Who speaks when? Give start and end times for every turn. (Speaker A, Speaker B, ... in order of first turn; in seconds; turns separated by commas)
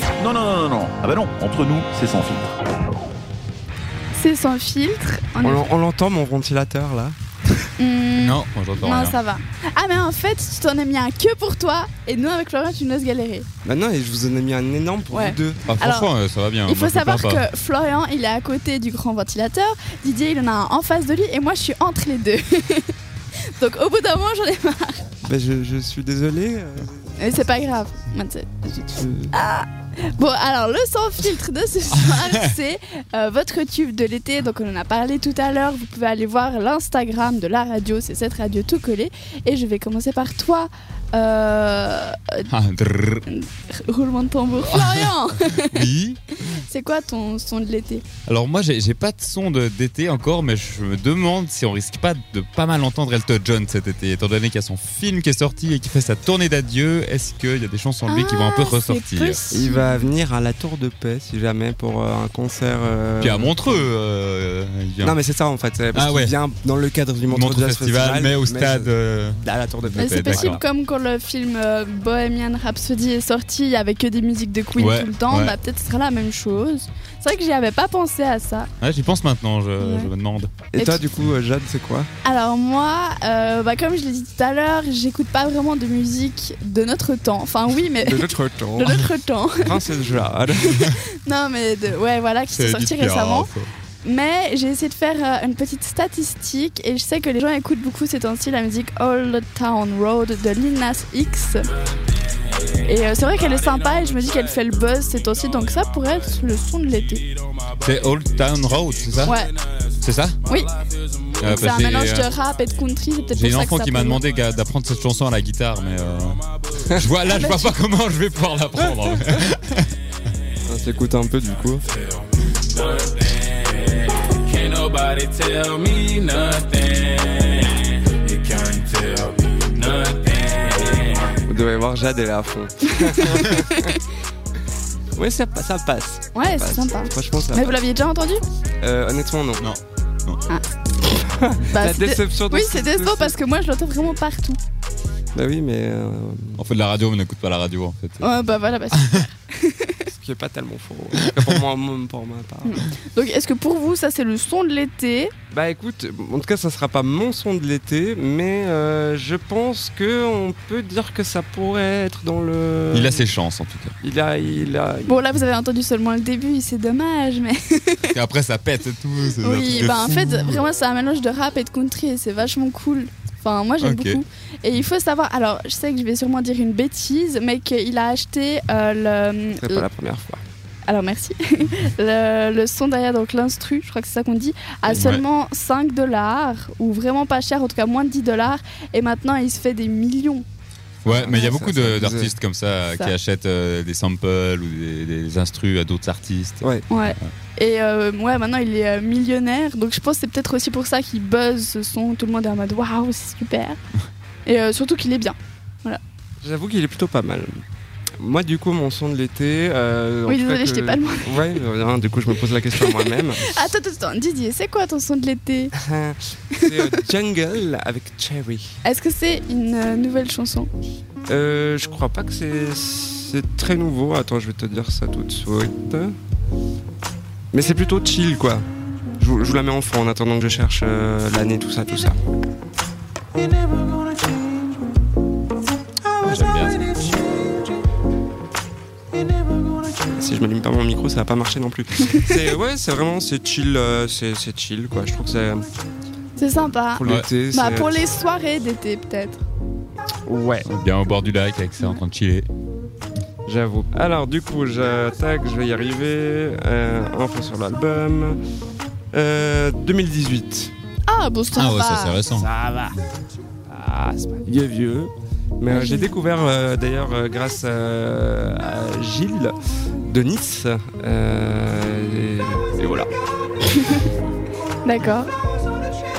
Speaker A: 0.2-2.6, Speaker B: 4.1-5.7, Speaker C: 5.4-7.2, Speaker B: 7.8-13.5, Speaker D: 8.2-9.2, Speaker C: 13.6-15.6, Speaker B: 15.1-16.1, Speaker D: 15.7-17.4, Speaker B: 16.7-22.9, Speaker B: 23.5-25.1, Speaker C: 25.2-27.1, Speaker B: 27.2-42.5, Speaker C: 28.9-29.3, Speaker D: 31.9-32.5, Speaker D: 42.5-43.3, Speaker B: 43.3-45.9, Speaker D: 44.7-46.6, Speaker B: 46.5-48.0, Speaker D: 48.3-59.4, Speaker B: 58.0-60.1, Speaker C: 59.5-63.9, Speaker D: 63.2-65.1, Speaker C: 65.0-70.6, Speaker D: 65.9-66.3, Speaker D: 67.3-70.6, Speaker B: 69.9-78.7, Speaker D: 74.8-75.5, Speaker D: 78.8-80.5, Speaker B: 79.8-80.1, Speaker C: 80.7-82.1, Speaker B: 80.8-81.0, Speaker B: 82.2-93.5, Speaker C: 88.0-90.8, Speaker D: 92.5-93.7, Speaker B: 94.0-101.7, Speaker B: 102.8-107.3, Speaker D: 107.8-109.4, Speaker B: 109.2-109.5, Speaker D: 110.0-110.4, Speaker B: 110.5-110.7, Speaker D: 111.4-112.3, Speaker B: 111.4-114.2, Speaker D: 113.3-119.9, Speaker B: 117.3-117.8, Speaker C: 120.7-121.9, Speaker E: 124.7-127.2, Speaker E: 128.4-130.3, Speaker C: 131.4-133.9, Speaker B: 132.9-134.0, Speaker C: 135.2-137.8, Speaker B: 136.3-138.4, Speaker C: 138.8-139.7, Speaker D: 139.6-140.4, Speaker C: 141.2-143.3, Speaker B: 141.7-144.6, Speaker C: 145.3-146.6, Speaker D: 146.6-148.4, Speaker B: 148.2-150.1, Speaker D: 148.9-149.2, Speaker C: 150.1-152.8, Speaker D: 151.2-151.5, Speaker B: 152.7-155.3, Speaker C: 155.5-163.3, Speaker D: 162.9-163.9, Speaker C: 164.0-165.2, Speaker B: 165.1-168.2, Speaker D: 168.0-170.6, Speaker B: 169.4-179.9, Speaker D: 173.8-174.2, Speaker C: 179.6-180.4, Speaker B: 180.9-190.5, Speaker D: 184.9-185.2, Speaker C: 191.1-192.3, Speaker D: 191.1-196.7, Speaker B: 196.9-203.8, Speaker B: 204.4-206.0, Speaker C: 206.4-207.6, Speaker C: 208.2-213.7, Speaker B: 210.3-211.6, Speaker B: 212.8-215.7, Speaker C: 215.8-218.8, Speaker B: 216.5-216.8, Speaker B: 218.8-220.7, Speaker C: 221.3-226.2, Speaker C: 227.5-228.7, Speaker C: 229.2-232.2, Speaker D: 236.2-236.9, Speaker C: 239.9-245.7, Speaker B: 246.4-249.4, Speaker C: 246.5-248.1, Speaker C: 250.2-250.7, Speaker D: 250.6-252.5, Speaker C: 253.4-258.4, Speaker C: 259.1-260.7, Speaker B: 261.1-262.2, Speaker D: 261.6-262.5, Speaker C: 262.3-263.0, Speaker C: 263.7-273.1, Speaker B: 265.7-266.1, Speaker B: 274.9-275.3